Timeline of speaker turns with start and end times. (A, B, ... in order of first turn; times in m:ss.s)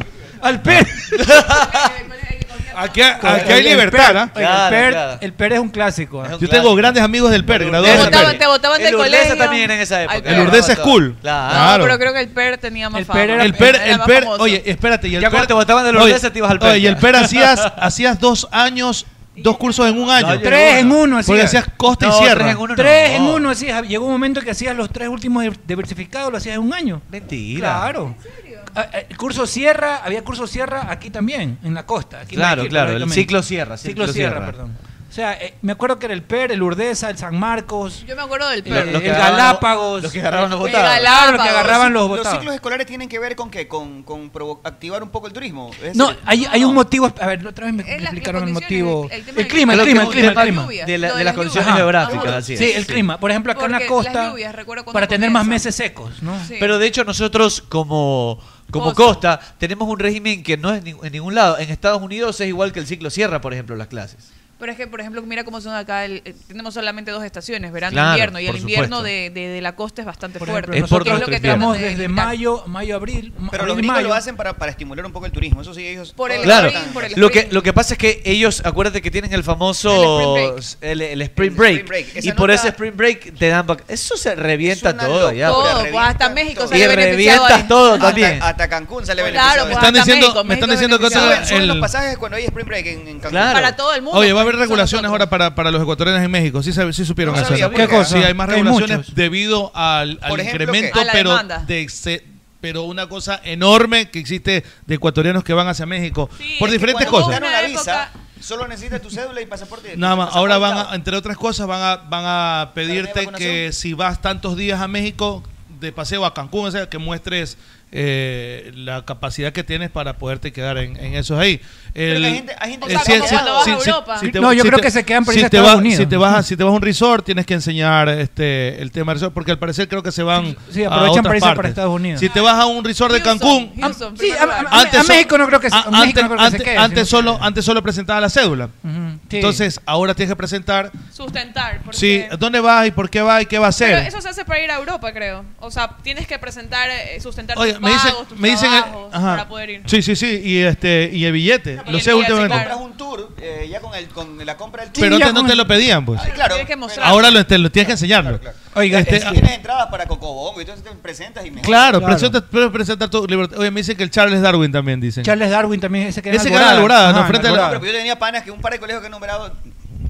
0:00.4-0:01.3 A
0:00.6-0:02.0 B
0:01.5-0:03.1 C
0:02.7-0:04.3 D
0:03.1-0:06.4 A
0:04.4-0:05.2 B
0:06.2-0:11.7 B
0:06.4-0:08.4 D
0:07.8-0:10.8 C
0:10.3-0:12.0 D
0:11.4-0:14.6 C
0:12.9-0:13.8 A
0:13.4-0:22.6 D
0:15.2-0:17.8 B
0:19.4-0:20.1 C
0:20.2-0:21.0 B
0:20.4-0:21.6 A
0:21.9-0:23.5 B
0:22.7-0:28.2 A
0:27.1-0:27.9 B
0:28.2-0:28.7 C
0:28.7-0:38.1 A
0:32.3-0:34.6 B
0:38.0-0:38.8 C
0:38.6-0:42.5 A
0:38.7-0:41.1 B
0:40.6-0:41.9 C
0:41.5-0:46.8 E
0:45.9-0:50.7 A
0:46.3-0:46.7 C
0:47.8-0:52.8 C
0:49.7-0:53.1 B
0:51.5-0:54.4 A
0:52.2-0:52.4 E
0:53.5-0:55.7 C
0:54.9-0:56.5 A
0:56.4-0:56.8 C
0:56.6-1:04.3 B
0:58.8-0:59.2 C
1:04.6-1:12.4 C
1:07.9-1:09.1 B
1:10.4-1:14.2 A
1:10.7-1:11.7 B
1:13.5-1:17.4 E
1:16.2-1:17.6 C
1:16.4-1:25.8 B
1:19.9-1:20.6 C
1:21.4-1:22.8 E
1:24.6-1:30.0 E
1:25.4-1:28.3 C
1:26.7-1:28.5 B
1:29.3-1:31.5 C
1:29.7-1:31.9 D
1:31.0-1:33.8 E
1:33.3-1:33.7 B
1:33.5-1:35.3 C
1:34.1-1:47.4 D
1:37.2-1:38.2 E
1:37.3-1:37.9 B
1:37.7-1:39.1 A
1:40.3-1:41.0 E
1:40.9-1:41.7 C
1:46.4-1:48.1 F
1:46.7-1:50.9 E
1:50.0-2:14.0 D
1:52.8-1:53.6 E
2:02.1-2:03.9 E
2:02.8-2:04.4 F
2:04.2-2:06.4 A
2:10.3-2:12.3 A
2:12.2-2:12.5 C
2:13.1-2:15.0 C
2:13.8-2:17.5 A
2:13.8-2:14.6 F
2:14.7-2:18.7 D
2:18.8-2:19.6 A
2:19.3-2:20.9 D
2:21.1-2:22.3 F
2:21.9-2:24.1 D
2:23.8-2:29.9 F
2:27.5-2:32.7 D
2:31.8-2:35.2 E
2:31.8-2:32.8 F
2:34.9-2:36.3 D
2:35.0-2:35.8 A
2:36.1-2:42.1 E
2:36.3-2:37.3 C
2:37.0-2:39.4 D
2:38.7-2:39.4 A
2:41.6-2:45.4 D
2:41.9-2:42.4 A
2:45.2-2:47.8 A
2:46.3-2:47.8 D
2:47.4-2:49.6 E